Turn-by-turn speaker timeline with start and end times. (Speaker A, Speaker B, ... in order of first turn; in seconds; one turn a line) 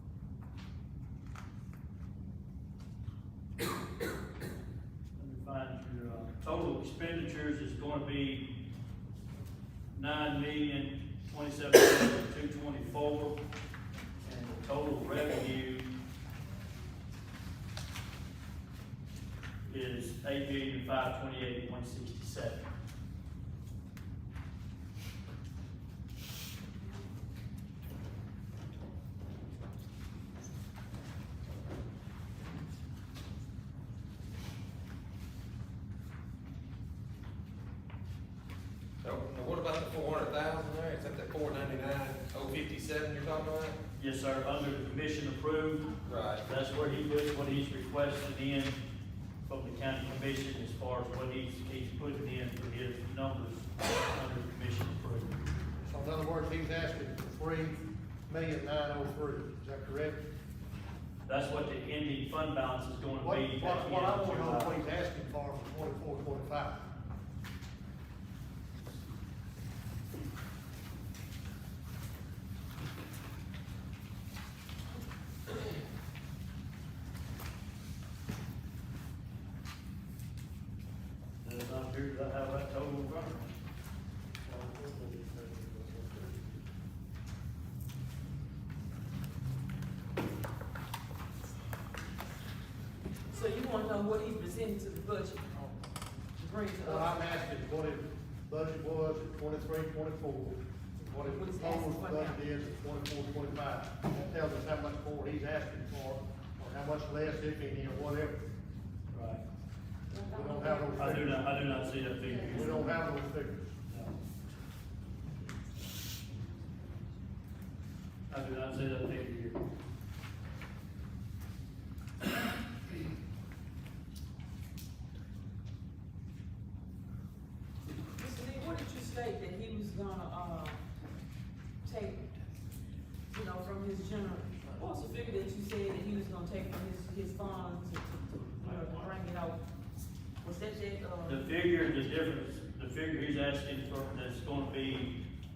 Speaker A: 5.2-8.5
Speaker A: 9.9-13.4
Speaker A: 14.2-15.9
Speaker A: 19.6-22.6
Speaker B: 39.0-43.8
Speaker A: 44.0-48.8
Speaker B: 46.0-46.5
Speaker A: 49.5-55.4
Speaker C: 55.8-60.2
Speaker A: 61.2-64.8
Speaker C: 63.2-66.8
Speaker A: 81.4-83.5
Speaker A: 84.4-86.5
Speaker D: 93.3-95.7
Speaker D: 96.4-97.1
Speaker C: 96.8-108.4
Speaker D: 101.2-102.4
Speaker A: 109.1-109.4
Speaker D: 110.1-112.9
Speaker C: 110.3-111.5
Speaker A: 110.9-113.0
Speaker C: 112.5-113.7
Speaker A: 113.9-114.1
Speaker D: 116.4-116.8
Speaker A: 118.3-119.6
Speaker D: 128.1-130.8
Speaker D: 131.8-132.2
Speaker D: 133.3-139.6
Speaker A: 138.3-139.2
Speaker D: 140.4-141.4
Speaker A: 141.2-145.2